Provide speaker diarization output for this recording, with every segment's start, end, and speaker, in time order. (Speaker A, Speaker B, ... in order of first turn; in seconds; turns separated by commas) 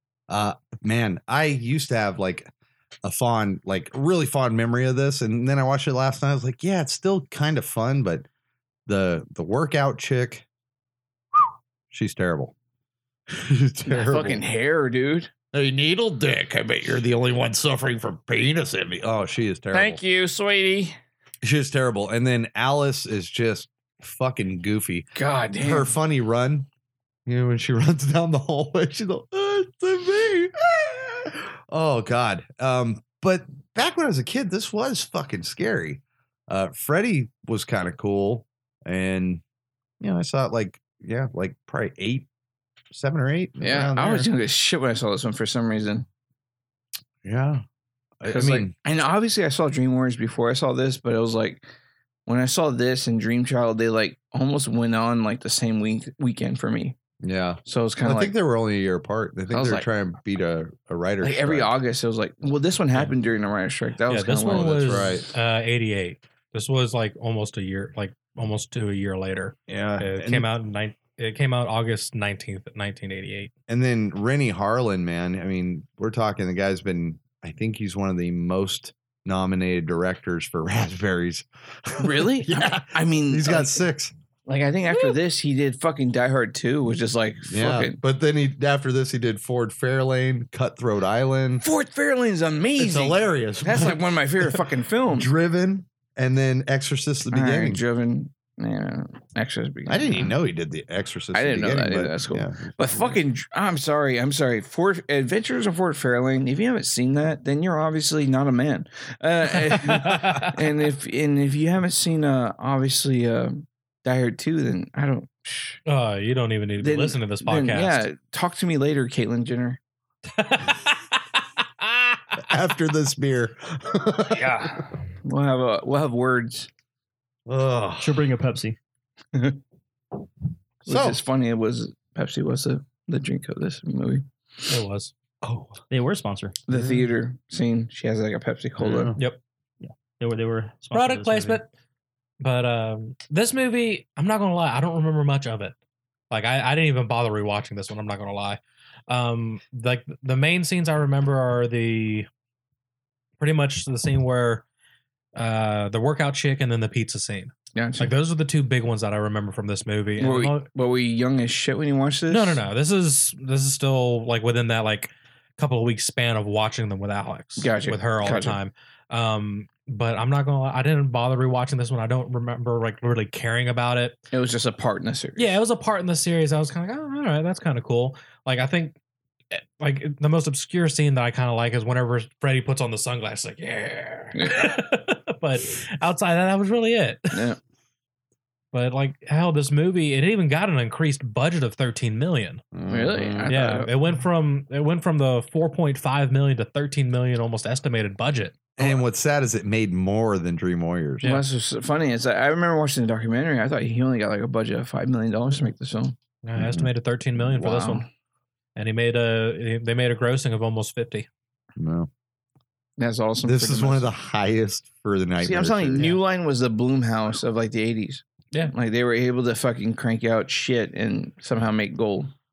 Speaker A: 0.3-2.5, Speaker A: 3.0-8.2, Speaker A: 8.9-10.4, Speaker A: 11.9-12.5, Speaker A: 13.3-14.4, Speaker B: 13.9-15.3, Speaker A: 15.5-20.0, Speaker B: 19.7-21.0, Speaker A: 21.4-26.7, Speaker B: 25.1-25.9, Speaker A: 27.2-39.4, Speaker A: 40.0-42.3, Speaker A: 42.9-44.3, Speaker B: 43.6-46.0, Speaker A: 47.2-47.6, Speaker A: 48.2-48.7, Speaker B: 48.3-51.6, Speaker B: 52.3-57.0, Speaker A: 57.2-61.8, Speaker B: 57.6-58.3, Speaker B: 59.5-59.9, Speaker B: 61.2-65.1, Speaker C: 64.1-73.5, Speaker A: 64.5-65.3, Speaker A: 69.7-70.5, Speaker A: 73.7-84.1, Speaker B: 82.0-83.8, Speaker B: 84.5-88.0, Speaker A: 87.5-91.6, Speaker B: 91.6-95.3, Speaker A: 92.8-94.6, Speaker A: 95.1-97.8, Speaker B: 97.3-100.3, Speaker A: 99.9-103.2, Speaker B: 101.3-115.8, Speaker C: 109.8-110.6, Speaker C: 115.9-118.0, Speaker B: 116.8-119.8, Speaker C: 120.3-121.2, Speaker C: 121.8-122.5, Speaker A: 122.4-124.8, Speaker B: 124.3-126.7, Speaker A: 127.5-128.2, Speaker D: 128.0-128.8, Speaker B: 130.8-134.7, Speaker A: 130.9-131.2, Speaker C: 134.7-135.1, Speaker A: 135.4-135.8, Speaker D: 135.9-136.5, Speaker B: 136.7-139.1, Speaker A: 136.7-137.1, Speaker A: 138.8-139.2, Speaker D: 139.8-141.6, Speaker C: 140.9-141.7, Speaker C: 142.4-145.7, Speaker C: 146.3-152.3, Speaker C: 153.4-154.6, Speaker C: 155.3-160.7, Speaker B: 157.7-158.1, Speaker B: 160.2-162.6, Speaker C: 162.3-174.2, Speaker B: 167.6-168.6, Speaker B: 174.3-175.6, Speaker C: 175.4-179.0, Speaker C: 179.5-187.5, Speaker B: 184.3-184.7, Speaker B: 187.3-187.6, Speaker C: 188.7-192.6, Speaker A: 192.7-193.8, Speaker B: 192.9-193.9, Speaker C: 193.5-199.0, Speaker A: 198.8-201.3, Speaker B: 201.2-206.1, Speaker C: 206.4-208.0, Speaker A: 206.6-206.9, Speaker B: 207.4-208.1, Speaker C: 208.8-211.3, Speaker A: 211.8-212.1, Speaker B: 213.0-214.1, Speaker A: 213.4-216.2, Speaker B: 215.4-222.3